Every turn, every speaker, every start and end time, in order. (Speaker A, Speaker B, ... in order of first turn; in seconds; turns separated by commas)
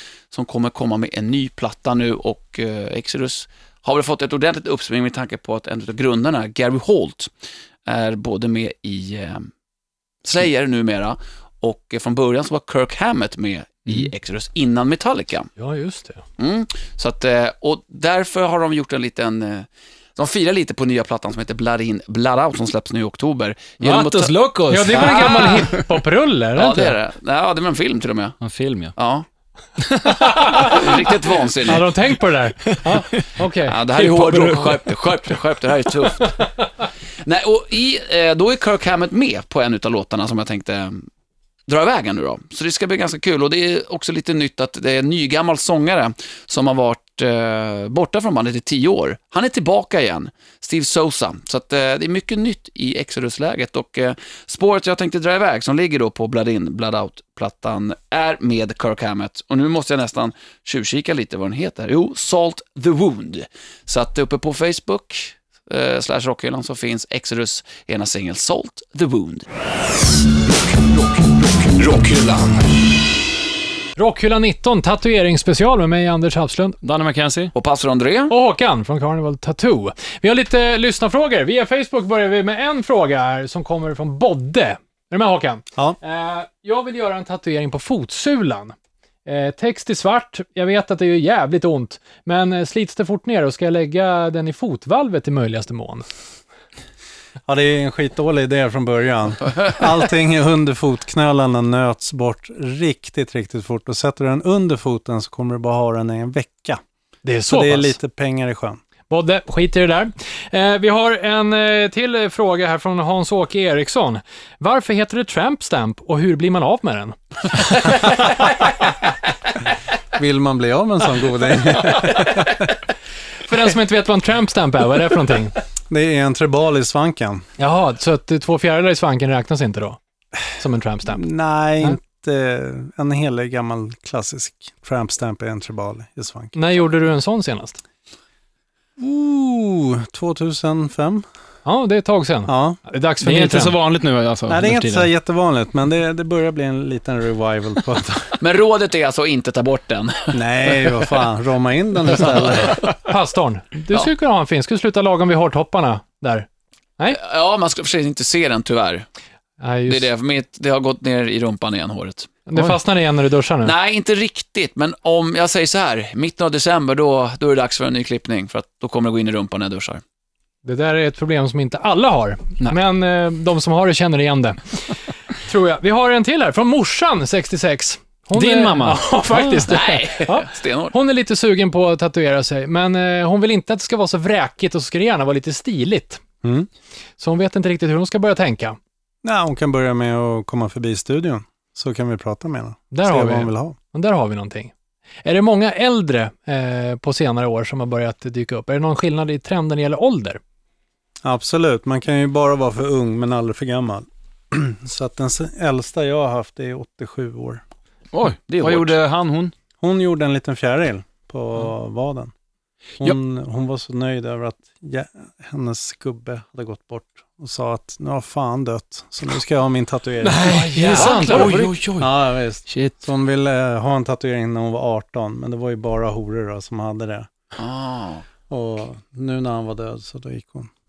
Speaker A: 0.3-7.3, Speaker A: 7.9-9.5, Speaker A: 10.2-15.5, Speaker B: 15.6-16.2, Speaker A: 16.4-25.8, Speaker C: 23.8-25.9, Speaker B: 24.7-27.0, Speaker A: 26.6-28.4, Speaker C: 28.4-28.9, Speaker A: 29.0-29.3, Speaker C: 29.8-31.4, Speaker B: 30.1-31.1, Speaker A: 30.5-31.9, Speaker B: 31.6-34.8, Speaker C: 32.7-33.2, Speaker A: 33.7-36.5, Speaker C: 34.0-35.0, Speaker A: 37.2-41.1, Speaker A: 41.7-69.5, Speaker D: 70.6-72.7, Speaker B: 74.0-76.8, Speaker C: 76.8-77.5, Speaker A: 77.5-78.3, Speaker B: 78.3-88.8, Speaker B: 89.3-96.0, Speaker E: 97.5-106.8, Speaker B: 107.2-108.0, Speaker E: 107.5-108.8, Speaker B: 109.1-118.4, Speaker E: 120.1-122.7, Speaker B: 123.5-125.5, Speaker E: 125.9-127.5, Speaker B: 127.6-130.0, Speaker B: 130.5-131.3, Speaker E: 131.1-136.6, Speaker B: 136.5-137.8, Speaker E: 139.0-141.2, Speaker B: 141.7-143.8, Speaker E: 142.5-142.8, Speaker C: 143.2-145.1, Speaker E: 144.5-148.4, Speaker A: 148.4-150.9, Speaker E: 150.3-152.8, Speaker B: 153.0-156.5, Speaker A: 157.1-159.1, Speaker B: 159.6-160.1, Speaker A: 159.9-162.4, Speaker B: 162.5-163.7, Speaker A: 163.6-170.0, Speaker B: 170.6-174.9, Speaker B: 175.4-186.2, Speaker C: 178.3-179.6, Speaker A: 179.7-180.9, Speaker E: 186.4-186.7, Speaker B: 187.2-188.8, Speaker E: 189.2-193.8, Speaker B: 192.9-194.7, Speaker B: 195.2-200.4, Speaker E: 201.2-207.6, Speaker C: 208.1-209.5, Speaker A: 208.5-209.0, Speaker E: 209.8-212.3, Speaker E: 213.0-220.5, Speaker C: 220.2-222.1, Speaker B: 220.4-221.7, Speaker A: 220.9-221.7, Speaker E: 222.0-227.3, Speaker C: 222.7-222.9, Speaker A: 227.6-228.2, Speaker E: 228.5-230.7